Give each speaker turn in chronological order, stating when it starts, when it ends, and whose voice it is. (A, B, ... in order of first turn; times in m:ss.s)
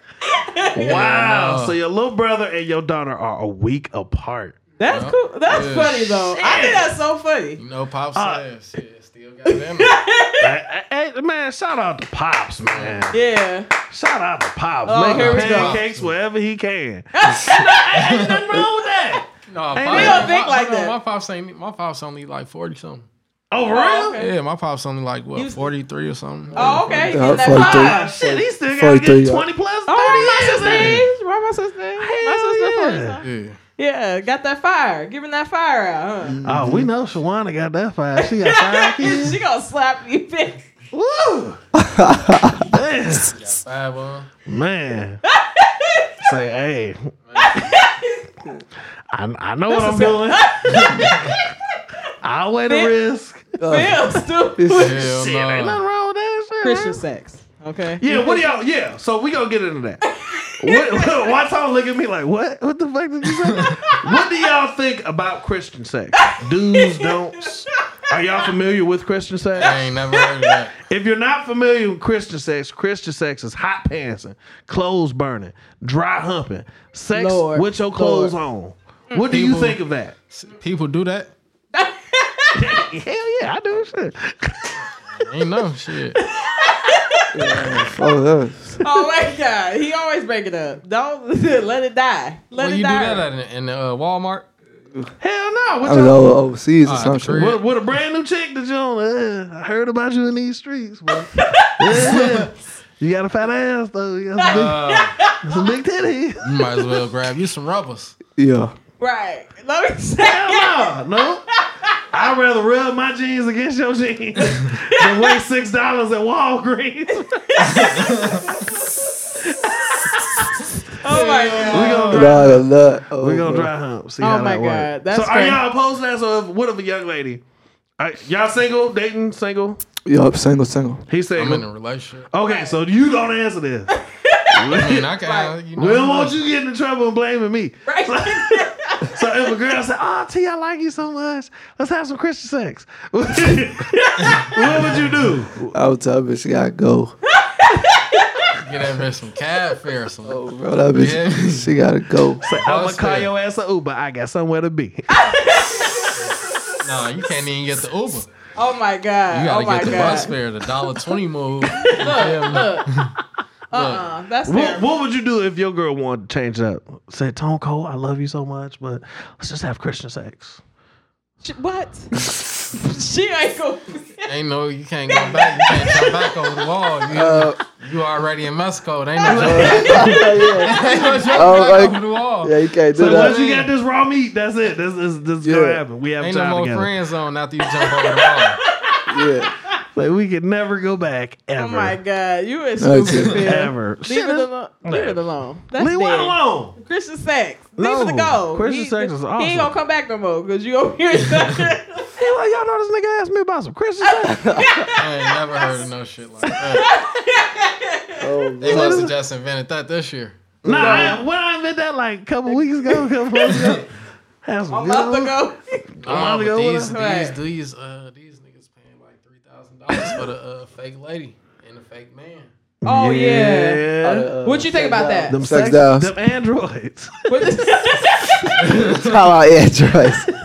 0:00.2-0:01.1 A
0:00.7-0:04.6 B
0:00.8-0:01.8 C
0:04.8-0:07.6 A
0:04.9-0:06.4 C
0:06.3-0:06.9 B
0:07.6-0:10.0 C
0:08.2-0:08.4 B
0:09.5-0:10.5 A
0:10.4-0:13.2 B
0:12.6-0:13.1 C
0:13.1-0:13.7 A
0:13.9-0:20.3 B
0:14.8-0:15.8 A
0:15.1-0:16.2 C
0:17.1-0:19.2 A
0:18.0-0:18.4 C
0:19.5-0:23.1 C
0:19.9-0:21.0 A
0:23.5-0:24.2 B
0:23.7-0:24.3 A
0:24.2-0:27.3 C
0:25.4-0:25.7 A
0:26.5-0:28.1 A
0:26.6-0:29.5 D
0:27.4-0:31.1 B
0:29.9-0:33.2 A
0:30.6-0:31.0 C
0:32.0-0:33.2 B
0:33.2-0:33.6 C
0:33.8-0:36.4 A
0:36.2-0:36.9 D
0:36.4-0:39.4 B
0:38.2-0:40.6 A
0:40.9-0:41.6 B
0:41.8-0:42.7 D
0:42.7-0:43.4 B
0:43.3-0:44.3 C
0:44.5-0:45.2 B
0:45.3-0:46.4 A
0:46.2-0:47.1 B
0:47.3-0:47.6 C
0:47.4-0:48.3 A
0:49.1-0:50.8 B
0:49.7-0:51.5 A
0:50.7-0:51.4 C
0:52.2-0:53.5 B
0:52.7-0:52.9 A
0:53.6-0:54.0 D
0:53.7-0:55.1 A
0:54.6-0:55.0 D
0:54.8-0:55.8 C
0:55.0-0:57.0 B
0:56.6-0:58.6 A
0:58.0-1:00.1 B
1:00.2-1:01.4 A
1:00.6-1:09.9 B
1:03.9-1:04.2 A
1:06.2-1:07.5 A
1:09.6-1:10.3 A
1:09.6-1:10.8 C
1:10.8-1:20.2 B
1:17.1-1:18.4 A
1:19.3-1:21.3 C
1:21.7-1:22.8 A
1:22.6-1:24.8 B
1:24.8-1:26.2 C
1:26.2-1:27.3 A
1:27.3-1:28.8 D
1:28.8-1:33.2 A
1:32.5-1:34.5 C
1:35.2-1:36.2 B
1:35.8-1:37.6 D
1:36.8-1:37.7 C
1:37.4-1:44.9 B
1:41.4-1:42.1 A
1:42.0-1:42.5 C
1:44.4-1:45.7 A
1:44.5-1:45.2 C
1:45.4-1:46.5 B
1:46.4-1:48.2 C
1:48.4-1:48.8 D
1:49.0-1:51.0 A
1:50.2-1:51.4 B
1:52.1-1:57.4 B
1:54.4-1:55.4 A
1:57.4-1:58.7 A
1:57.6-1:58.5 C
2:00.1-2:00.4 B
2:01.0-2:02.3 A
2:01.0-2:02.6 C
2:01.7-2:02.6 B
2:02.1-2:03.7 D
2:03.2-2:07.4 B
2:04.2-2:05.6 A
2:08.0-2:09.8 B
2:10.0-2:11.0 D
2:11.1-2:11.7 B
2:11.4-2:12.3 C
2:12.3-2:14.0 B
2:12.4-2:12.8 A
2:13.9-2:15.5 A
2:14.5-2:15.1 B
2:14.7-2:16.5 C
2:15.8-2:25.8 B
2:17.9-2:19.8 A
2:23.9-2:24.2 A
2:24.2-2:25.3 C
2:25.7-2:27.1 D
2:27.4-2:28.4 A
2:28.5-2:31.7 C
2:30.2-2:32.4 D
2:32.4-2:35.2 B
2:32.4-2:33.3 C
2:35.1-2:36.2 A
2:36.8-2:38.3 C
2:38.6-2:40.3 A
2:39.3-2:43.1 C
2:41.8-2:42.9 A
2:43.7-2:44.9 A
2:43.7-2:44.1 C
2:44.5-2:50.6 B
2:51.4-2:52.2 A
2:52.7-2:54.3 A
2:54.3-3:03.7 C
2:55.1-2:56.6 A
2:57.1-2:57.6 D
2:59.3-3:00.2 B
2:59.3-3:03.4 D
2:59.4-2:59.9 A
3:03.0-3:06.9 B
3:05.4-3:05.8 D
3:06.2-3:08.6 C
3:07.8-3:09.0 A
3:09.1-3:09.5 D
3:09.9-3:12.0 B
3:11.6-3:22.0 A
3:12.8-3:13.5 D
3:13.4-3:16.8 B
3:17.8-3:19.7 B
3:22.2-3:24.5 B
3:24.0-3:25.0 A
3:24.4-3:24.9 D
3:25.0-3:26.9 C
3:25.6-3:25.8 A
3:26.7-3:28.3 A
3:28.2-3:29.1 D
3:28.6-3:30.5 C
3:28.7-3:29.1 B
3:30.6-3:31.2 D
3:30.6-3:33.9 B
3:30.7-3:31.2 A
3:32.5-3:33.6 A
3:34.4-3:35.4 B
3:34.7-3:35.8 A
3:36.0-3:37.0 B
3:36.0-3:42.5 C
3:36.9-3:37.4 A
3:42.8-3:44.3 B
3:42.8-3:45.4 A
3:44.0-3:46.1 D
3:45.3-3:47.6 B
3:47.3-3:48.6 A
3:48.6-3:49.2 C
3:48.6-3:50.3 D